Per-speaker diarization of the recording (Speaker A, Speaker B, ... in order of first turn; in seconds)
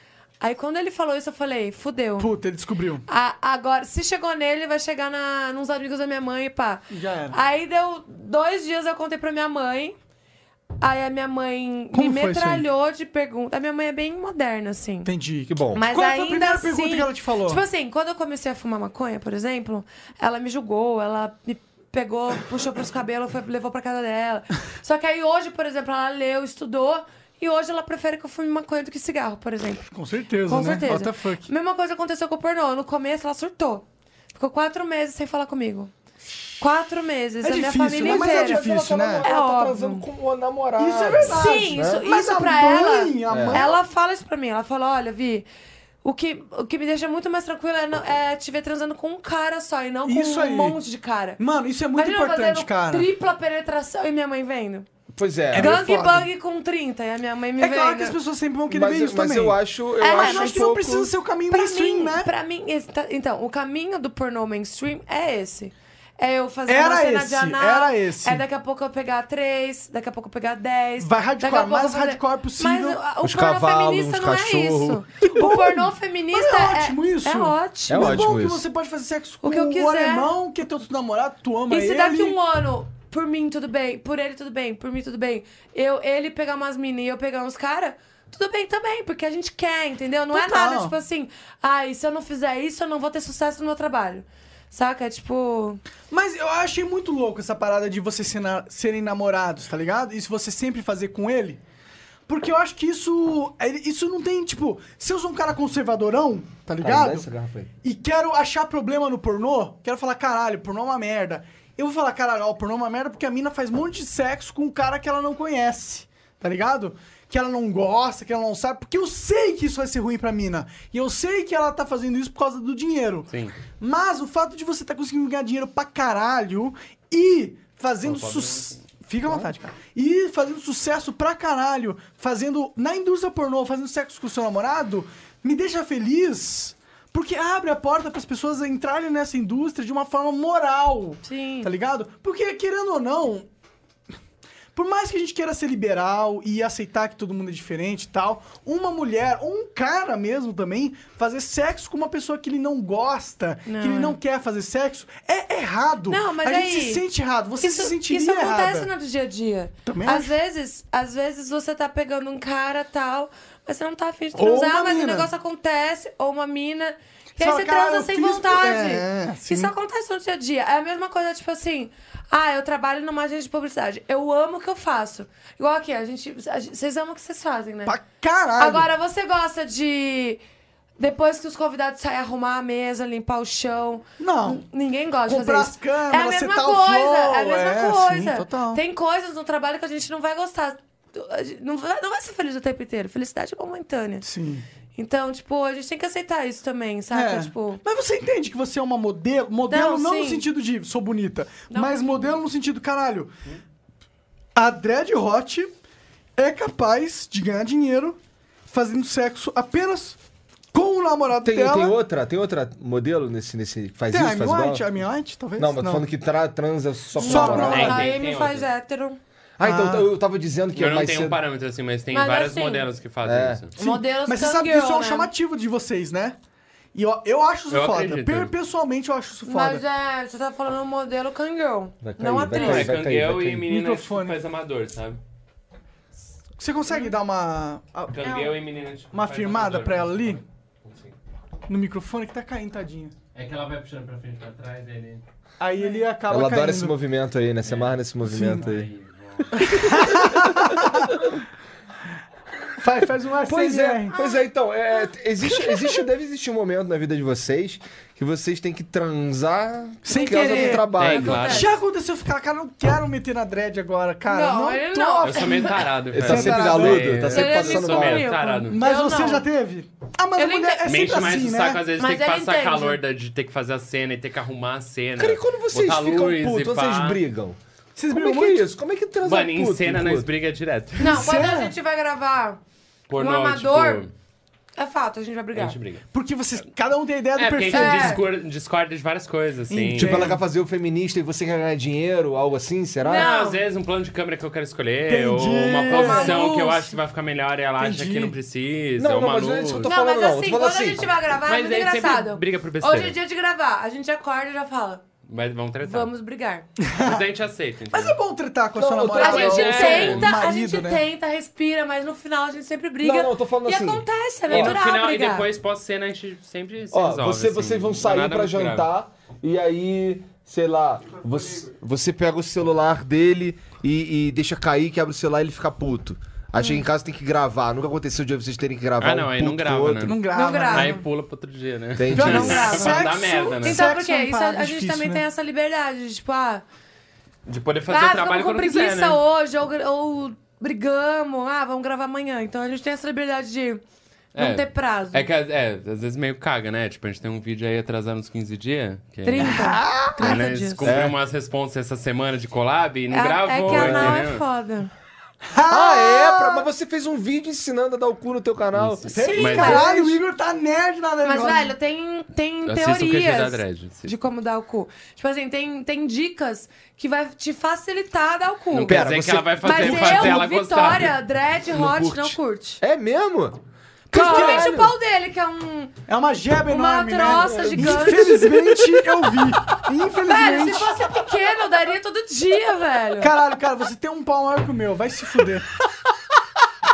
Speaker A: 0.4-2.3, 3.1-9.9, 10.8-15.1, 15.7-29.8, 30.4-35.9, 36.6-38.7, 39.2-40.0, 41.2-45.5, 46.0-51.4, 52.0-54.9, 55.5-58.1, 60.0-60.7, 61.5-78.2, 79.4-80.3, 81.7-95.8, 141.2-141.7, 153.7-154.2, 156.1-157.0, 157.6-178.0, 178.6-180.4, 181.0-194.2, 194.9-197.8, 199.7-200.5, 201.7-202.3, 217.2-219.2, 222.1-222.8, 223.8-225.3, 229.4-232.9, 254.1-254.5, 260.1-261.7, 264.3-265.8, 267.3-269.5, 270.4-270.9, 272.0-273.0, 281.0-282.6, 283.1-284.1, 284.8-285.8, 287.7-288.2, 293.0-293.6, 295.9-296.9, 299.8-305.0, 305.8-306.6, 309.2-315.5, 326.6-326.8, 330.3-331.0, 332.1-336.6, 337.9-343.8, 344.4-345.2, 349.2-350.8, 353.1-354.9, 359.2-360.2, 361.2-369.0, 369.6-372.8, 374.1-375.9, 376.7-378.5, 380.2-383.3
Speaker B: 2.2-3.0, 6.9-7.4, 11.9-12.6, 15.0-17.6, 29.9-31.5, 37.4-39.3, 40.8-43.8, 50.0-50.8, 51.4-53.1, 55.5-56.3, 57.6-62.3, 66.7-68.4, 71.0-73.0, 75.3-82.3, 90.3-90.9, 96.1-101.6, 102.3-107.3, 107.8-143.5, 144.7-158.9, 159.8-160.3, 164.3-165.3, 167.4-169.7, 177.8-178.9, 184.2-184.6, 185.3-188.8, 194.2-194.6, 197.1-203.3, 204.5-205.7, 206.4-208.2, 208.7-210.2, 210.7-211.9, 214.1-216.0, 217.2-218.1, 219.6-220.1, 223.8-226.3, 226.9-229.8, 233.7-234.3, 236.6-238.5, 239.1-240.4, 241.7-243.1, 245.6-246.9, 248.2-248.6, 249.6-251.1, 252.8-254.1, 255.6-255.9, 260.0-267.2, 268.7-271.8, 277.9-278.7, 281.0-281.7, 286.1-288.2, 289.7-290.4, 295.1-296.4, 297.8-298.3, 306.8-307.2, 307.9-311.0, 330.0-330.9, 332.1-335.2, 349.4-350.4, 355.5-356.6, 359.1-361.7, 374.1-374.7, 376.1-380.9, 383.2-385.7
Speaker C: 15.5-15.8, 38.0-42.0, 43.3-43.6, 55.1-55.8, 58.7-61.1, 73.2-75.3, 77.9-78.6, 106.8-107.7, 211.4-214.9, 215.6-218.0, 219.6-221.4, 223.2-223.6, 232.0-233.7, 246.3-248.9, 249.5-250.9, 253.4-261.4, 266.1-268.3, 275.2-277.6, 278.1-280.3, 289.9-293.3, 299.0-301.1, 308.8-310.1, 313.0-314.8, 316.9-330.1, 331.9-332.8, 350.8-351.1, 353.7-354.2, 355.7-359.1, 368.9-370.5, 371.7-373.6, 374.1-374.9, 377.2-378.6
Speaker D: 123.3-123.5, 128.0-128.8, 217.5-218.7, 220.7-223.7, 227.7-228.5, 232.5-235.2, 238.1-241.1, 243.3-245.2, 247.6-247.9, 248.5-249.7, 260.9-261.7, 265.2-268.8, 270.8-277.2, 279.2-281.2, 283.1-284.1, 285.5-286.0, 287.3-290.3, 293.1-299.9, 301.5-303.1, 305.2-306.1, 307.0-308.2, 309.2-310.3, 314.5-318.9, 329.0-333.8, 337.4-339.2, 344.3-349.6, 350.2-354.4, 358.7-359.9, 362.6-364.1, 368.7-371.1